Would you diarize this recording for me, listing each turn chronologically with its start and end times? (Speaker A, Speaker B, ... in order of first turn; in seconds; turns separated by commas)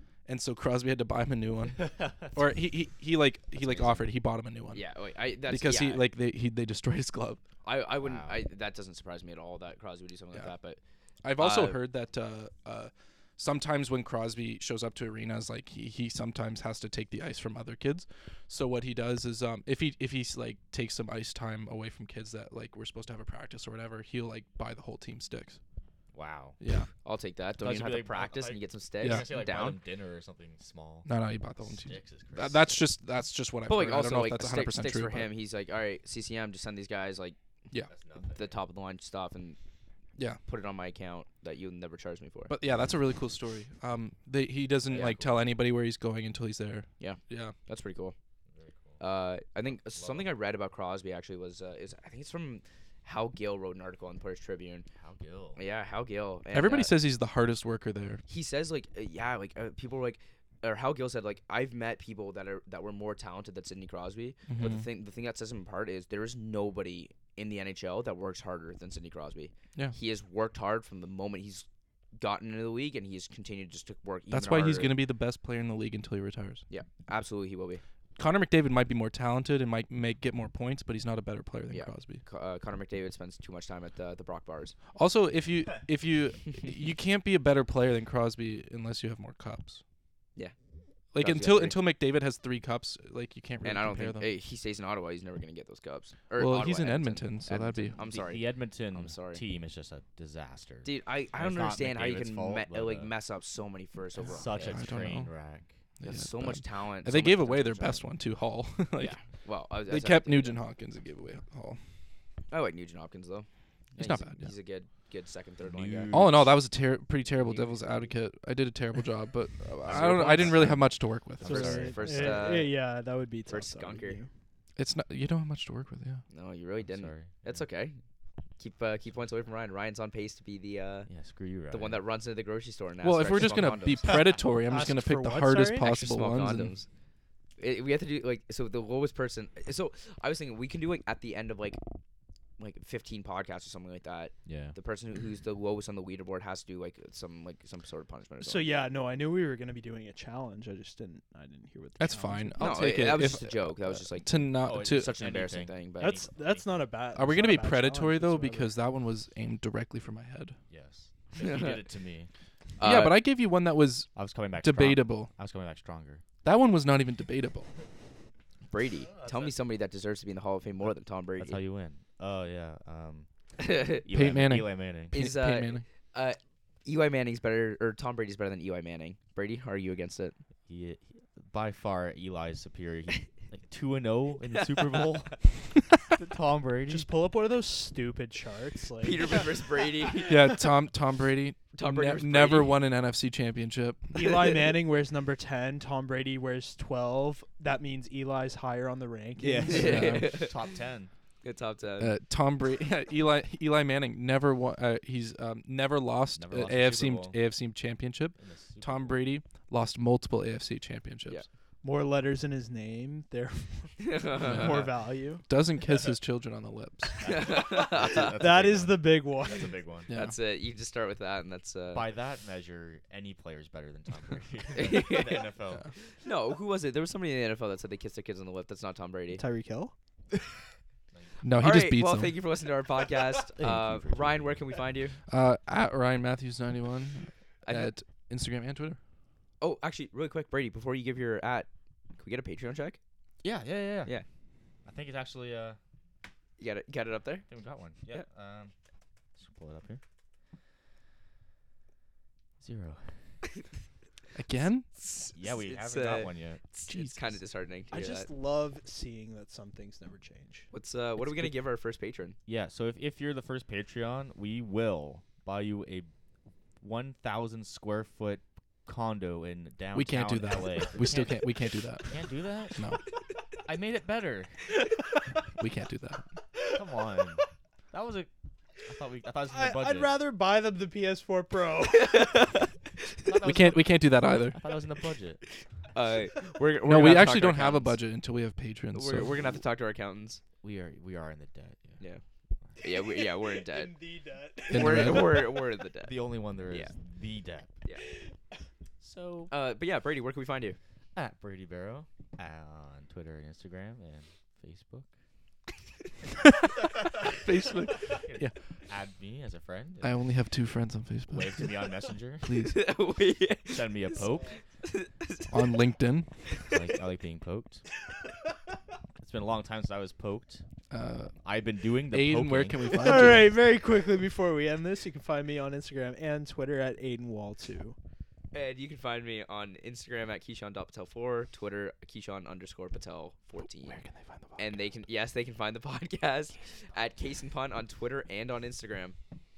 Speaker A: 0.3-4.8, Speaker B: 1.8-2.4, Speaker B: 3.6-4.0, Speaker C: 4.7-6.0, Speaker A: 5.5-7.4, Speaker C: 7.6-10.8, Speaker B: 8.0-8.4, Speaker A: 11.2-25.6, Speaker C: 11.4-11.8, Speaker B: 26.1-26.6, Speaker A: 26.6-26.9, Speaker C: 27.1-29.8, Speaker B: 27.6-31.1, Speaker A: 29.0-29.3, Speaker A: 31.1-35.3, Speaker B: 31.6-32.7, Speaker C: 33.7-37.4, Speaker B: 37.9-38.6, Speaker C: 38.3-39.6, Speaker C: 40.5-42.5, Speaker A: 42.5-47.5, Speaker B: 44.9-45.4, Speaker C: 44.9-45.2, Speaker C: 47.0-48.1, Speaker B: 48.5-49.0, Speaker C: 49.0-54.9, Speaker B: 49.7-50.4, Speaker B: 55.0-55.6, Speaker C: 55.6-56.9, Speaker A: 56.5-58.2, Speaker C: 58.3-74.9, Speaker A: 64.5-64.8, Speaker A: 74.3-76.7, Speaker C: 76.7-77.8, Speaker A: 78.2-82.2, Speaker C: 81.7-84.8, Speaker A: 85.0-89.8, Speaker A: 91.1-94.3, Speaker C: 91.2-91.8, Speaker C: 93.6-99.4, Speaker A: 96.4-98.0, Speaker B: 98.0-103.1, Speaker C: 100.8-104.8, Speaker B: 104.3-105.8, Speaker A: 104.5-105.3, Speaker A: 106.0-109.2, Speaker C: 106.0-108.0, Speaker C: 109.0-110.6, Speaker A: 109.9-111.8, Speaker C: 112.5-116.1, Speaker A: 114.0-114.5, Speaker B: 115.6-116.6, Speaker A: 116.1-121.8, Speaker C: 117.4-117.8, Speaker B: 119.8-122.6, Speaker C: 119.9-120.6, Speaker D: 121.4-124.3, Speaker C: 121.4-122.8, Speaker C: 123.5-124.2, Speaker A: 124.8-126.2, Speaker C: 126.3-128.0, Speaker B: 126.8-127.7, Speaker C: 128.6-131.1, Speaker B: 131.1-132.0, Speaker C: 131.7-134.1, Speaker A: 133.0-136.8, Speaker D: 134.7-135.9, Speaker C: 135.8-136.9, Speaker C: 137.6-141.8, Speaker C: 142.6-148.6, Speaker B: 144.5-144.8, Speaker D: 148.4-152.9, Speaker A: 152.0-155.1, Speaker C: 152.6-156.3, Speaker B: 154.6-156.8, Speaker D: 156.0-158.8, Speaker A: 157.1-160.6, Speaker B: 160.7-162.3, Speaker C: 161.4-161.8, Speaker C: 162.8-163.2, Speaker A: 162.8-165.3, Speaker B: 164.2-166.2, Speaker A: 166.4-167.7, Speaker C: 168.7-171.6, Speaker B: 169.1-169.6, Speaker B: 171.4-173.3, Speaker C: 173.6-174.1, Speaker B: 173.9-175.1, Speaker A: 174.1-175.8, Speaker C: 175.1-180.4, Speaker B: 180.7-185.5, Speaker C: 184.4-185.3, Speaker B: 186.1-187.1, Speaker D: 186.9-190.3, Speaker C: 189.0-190.4, Speaker A: 190.2-194.2, Speaker C: 191.7-192.8, Speaker D: 194.1-200.2, Speaker C: 194.2-194.7, Speaker B: 199.5-201.1, Speaker C: 199.6-200.6, Speaker A: 199.6-200.4, Speaker C: 201.4-202.1, Speaker A: 202.0-211.4, Speaker B: 206.4-207.4, Speaker B: 208.4-209.2, Speaker D: 211.8-215.5, Speaker C: 214.0-214.9, Speaker A: 214.4-217.3, Speaker C: 217.2-218.3, Speaker B: 217.2-220.1, Speaker D: 218.0-219.8, Speaker A: 220.1-220.4, Speaker C: 220.1-222.1, Speaker B: 221.9-225.9, Speaker C: 224.8-225.5, Speaker C: 226.2-229.4, Speaker D: 229.3-229.9, Speaker B: 231.1-231.4, Speaker A: 231.4-232.3, Speaker C: 231.6-235.2, Speaker B: 233.5-234.6, Speaker A: 235.3-239.0, Speaker C: 237.7-237.9, Speaker C: 239.6-243.0, Speaker B: 243.4-244.1, Speaker B: 244.8-245.8, Speaker C: 246.6-247.5, Speaker B: 247.5-248.7, Speaker B: 249.4-250.0, Speaker B: 252.6-253.2, Speaker A: 254.3-254.9, Speaker C: 254.9-258.3, Speaker B: 255.3-256.6, Speaker A: 256.9-257.4, Speaker D: 257.9-260.7, Speaker C: 260.7-262.4, Speaker B: 262.5-266.1, Speaker B: 266.8-271.5, Speaker A: 269.9-272.1, Speaker B: 272.1-272.8, Speaker A: 272.8-273.0, Speaker B: 273.6-274.7, Speaker A: 275.6-276.3, Speaker D: 276.6-277.4, Speaker B: 276.7-280.1, Speaker D: 279.5-282.5, Speaker C: 281.9-283.1, Speaker B: 283.2-285.4, Speaker A: 283.4-284.6, Speaker C: 285.9-288.0, Speaker A: 286.8-289.5, Speaker C: 288.9-290.4, Speaker B: 290.6-292.0, Speaker C: 292.8-293.9, Speaker D: 292.9-295.5, Speaker C: 294.7-296.1, Speaker A: 294.7-295.4, Speaker B: 296.0-297.8, Speaker C: 296.7-296.9, Speaker D: 298.0-298.3, Speaker B: 299.0-299.5, Speaker C: 299.5-300.8, Speaker B: 301.1-305.1, Speaker A: 306.5-308.6, Speaker B: 308.2-310.2, Speaker A: 310.0-311.7, Speaker B: 311.3-312.6, Speaker A: 312.4-312.8, Speaker C: 312.6-315.7, Speaker B: 313.7-314.6, Speaker A: 315.5-316.3, Speaker C: 316.5-316.8, Speaker B: 316.6-317.9, Speaker B: 319.2-320.6, Speaker A: 320.9-321.4, Speaker B: 321.4-323.5, Speaker A: 322.1-323.5, Speaker D: 322.9-328.0, Speaker C: 328.5-334.0, Speaker A: 333.9-334.6, Speaker C: 334.6-339.2